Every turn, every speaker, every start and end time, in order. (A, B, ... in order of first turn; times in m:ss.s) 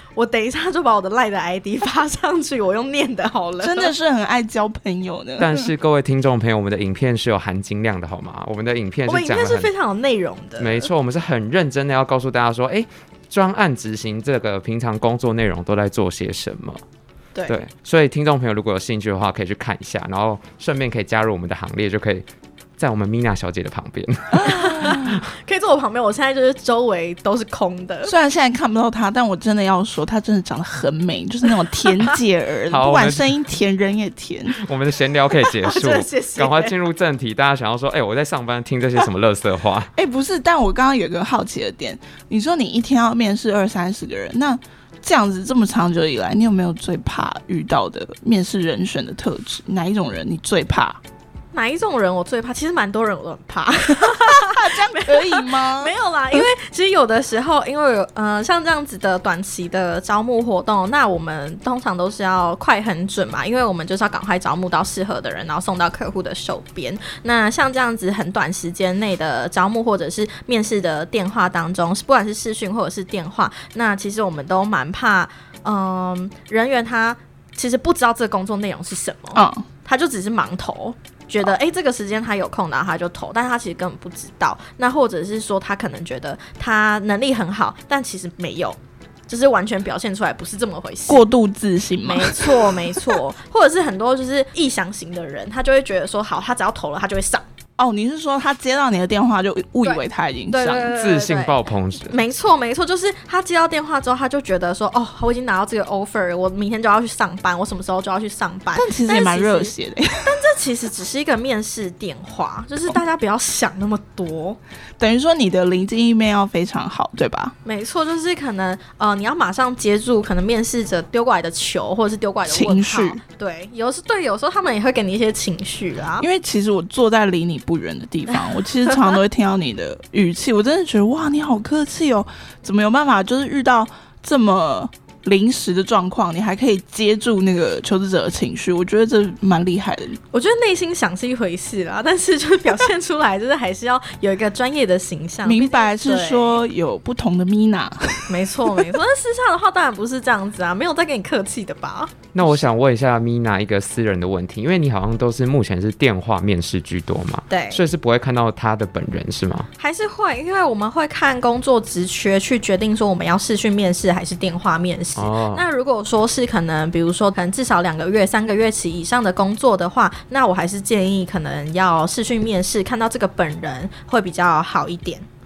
0:00.1-0:03.9 A
0:03.6-0:05.7 B
0:05.4-0:09.7 C
0:09.1-0:10.9 A
0:10.6-0:16.8 C
0:17.5-0:22.2 C
0:22.8-0:25.2 C
0:24.4-0:28.1 A
0:28.0-0:34.6 B
0:32.7-0:33.4 C
0:34.6-0:39.9 C
0:35.4-0:36.7 A
0:39.9-0:51.0 B
0:51.5-1:28.8 A
0:54.0-0:56.4 B
1:19.3-1:19.6 B
1:29.3-1:31.3 A
1:31.1-1:33.2 B
1:32.0-1:37.4 A
1:37.8-1:40.9 B
1:39.8-1:54.6 A
1:40.9-1:42.2 C
1:48.7-1:50.3 B
1:55.0-1:57.5 B
1:57.6-2:06.3 A
2:02.5-2:03.2 B
2:06.2-2:20.2 B
2:20.3-2:26.6 A
2:25.4-2:28.3 B
2:28.3-2:32.6 A
2:32.3-2:39.7 C
2:37.5-2:37.8 A
2:39.8-2:55.3 A
2:45.2-2:45.6 C